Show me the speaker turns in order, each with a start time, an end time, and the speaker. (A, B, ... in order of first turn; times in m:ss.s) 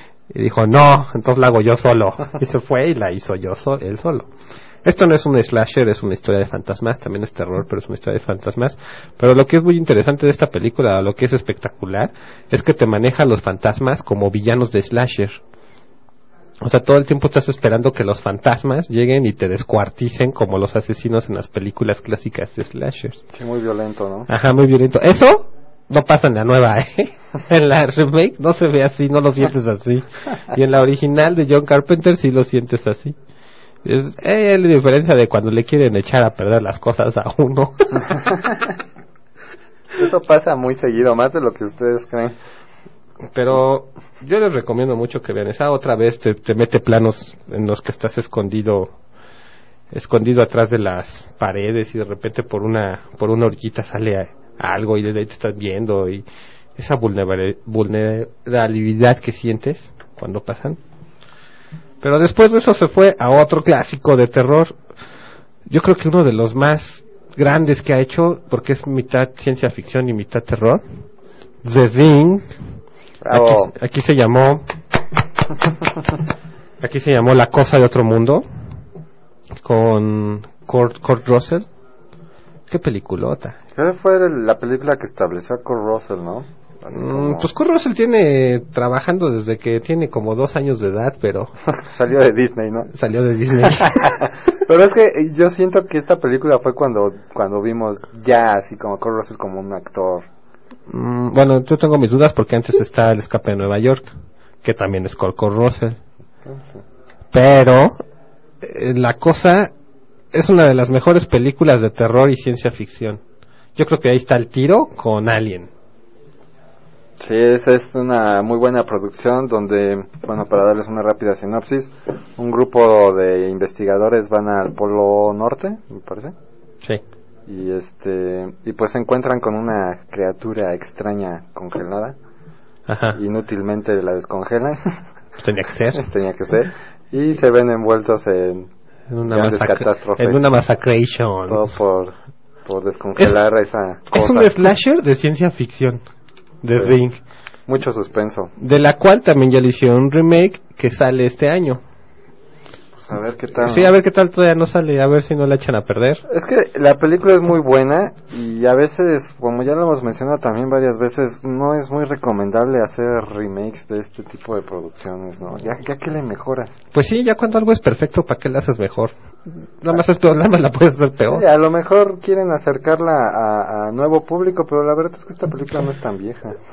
0:00.3-0:04.3 A
0:04.8-0:15.4 A
0:16.6-0:23.2 A
0:23.3-0:24.3 B
0:24.3-0:33.2 A
0:33.8-0:38.0 A
0:40.0-0:42.4 B
0:43.3-0:48.9 A
0:49.9-0:56.2 A
0:56.8-1:00.8 A
1:02.0-1:04.8 A
1:05.7-1:10.8 A
1:11.6-1:12.5 A
1:13.2-1:13.7 B
1:13.3-1:14.6 A
1:16.8-1:18.4 A
1:19.6-1:21.7 A
1:22.7-1:23.6 A
1:23.7-1:27.5 B
1:26.9-1:31.5 A
1:31.7-1:32.9 B
1:32.9-1:34.2 A
1:33.6-1:34.1 B
1:34.6-1:40.3 B
1:40.9-1:44.1 A
1:44.6-1:46.0 A
1:46.4-1:46.8 B
1:47.3-1:48.0 A
1:48.6-1:49.7 A
1:50.3-1:53.2 A
1:53.8-1:55.7 A
1:57.2-2:06.3 B
2:07.5-2:12.2 B
2:12.9-2:13.2 A
2:13.1-2:15.0 B
2:15.4-2:16.0 A
2:15.9-2:18.7 B
2:19.1-2:21.7 A
2:19.3-2:20.5 B
2:21.5-2:24.5 B
2:24.1-2:26.0 A
2:26.6-2:27.2 A
2:27.7-2:28.5 B
2:28.6-2:31.8 A
2:32.9-2:33.9 B
2:33.6-2:36.2 A
2:36.3-2:46.8 B
2:46.9-2:49.1 A
2:49.8-2:51.4 A
2:51.3-2:56.6 B